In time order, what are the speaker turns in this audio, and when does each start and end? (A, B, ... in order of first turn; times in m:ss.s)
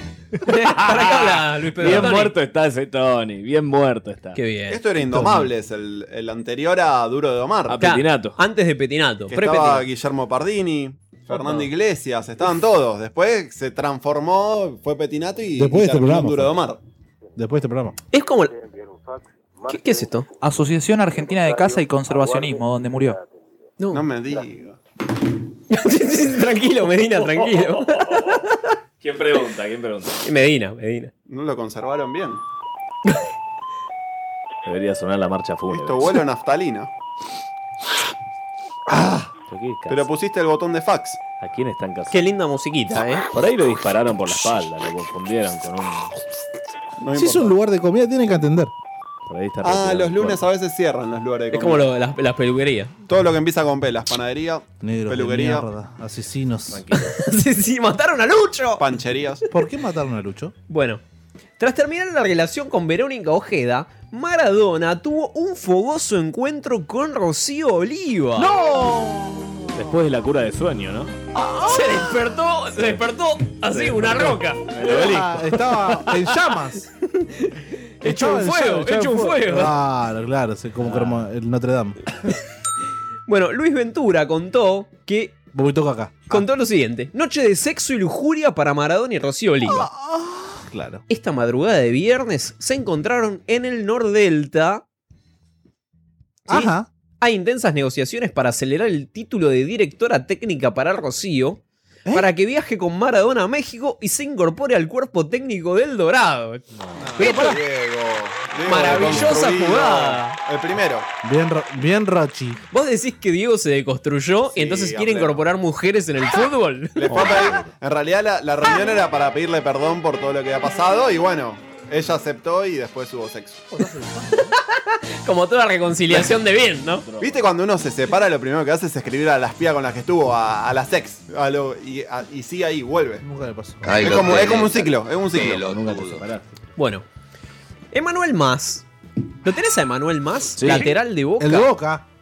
0:00.4-0:02.3 A
0:00.8-0:04.4 B
0:04.3-0:05.4 A
0:04.7-0:07.8 C
0:07.7-0:08.4 B
0:07.8-0:09.8 A
0:09.3-0:16.8 C
0:15.6-0:16.6 D
0:17.4-0:18.0 D
0:18.1-0:18.5 A
0:19.7-0:20.3 A
0:20.4-0:23.2 E
0:23.9-0:24.8 C
0:25.7-0:28.4 A
0:29.0-0:30.2 B
0:30.2-0:31.1 A
0:31.3-0:32.4 C
0:34.6-0:36.2 B
0:35.7-0:36.9 C
0:39.5-0:40.1 B
0:39.9-0:41.2 C
0:41.4-0:42.3 B
0:42.1-0:43.2 A
0:43.3-0:46.1 B
0:47.0-0:47.5 C
0:47.1-0:48.7 D
0:49.3-0:50.4 B
0:49.6-0:51.8 C
0:51.5-0:52.9 A
0:53.1-0:55.6 C
0:54.8-0:56.8 D
0:56.7-0:57.1 B
0:56.9-0:58.8 A
0:58.8-0:59.4 C
0:59.5-1:00.5 D
1:00.7-1:01.0 A
1:01.6-1:08.5 A
1:08.4-1:09.9 D
1:09.7-1:11.1 B
1:11.6-1:15.0 A
1:13.7-1:15.9 B
1:14.9-1:16.9 D
1:17.2-1:19.7 A
1:18.0-1:22.0 D
1:20.8-1:21.3 B
1:23.3-1:25.3 A
1:25.5-1:26.4 D
1:26.3-1:29.9 A
1:29.6-1:31.0 D
1:31.1-1:34.8 A
1:36.5-1:36.9 D
1:36.5-1:41.6 A
1:42.1-1:46.6 A
1:46.8-1:47.0 B
1:47.0-1:51.0 C
1:47.2-1:47.6 A
1:47.2-1:47.5 D
1:48.6-1:50.4 A
1:51.2-1:52.6 D
1:52.7-1:57.3 A
1:54.5-1:55.4 C
1:57.0-2:03.7 C
1:57.1-1:57.7 B
2:03.7-2:04.5 D
2:04.7-2:07.0 A
2:07.0-2:07.5 B
2:07.2-2:13.2 C
2:13.2-2:13.9 D
2:14.0-2:15.7 C
2:15.4-2:16.5 B
2:16.8-2:17.0 A
2:17.9-2:18.8 A
2:19.4-2:21.7 A
2:20.6-2:20.9 B
2:21.4-2:22.0 D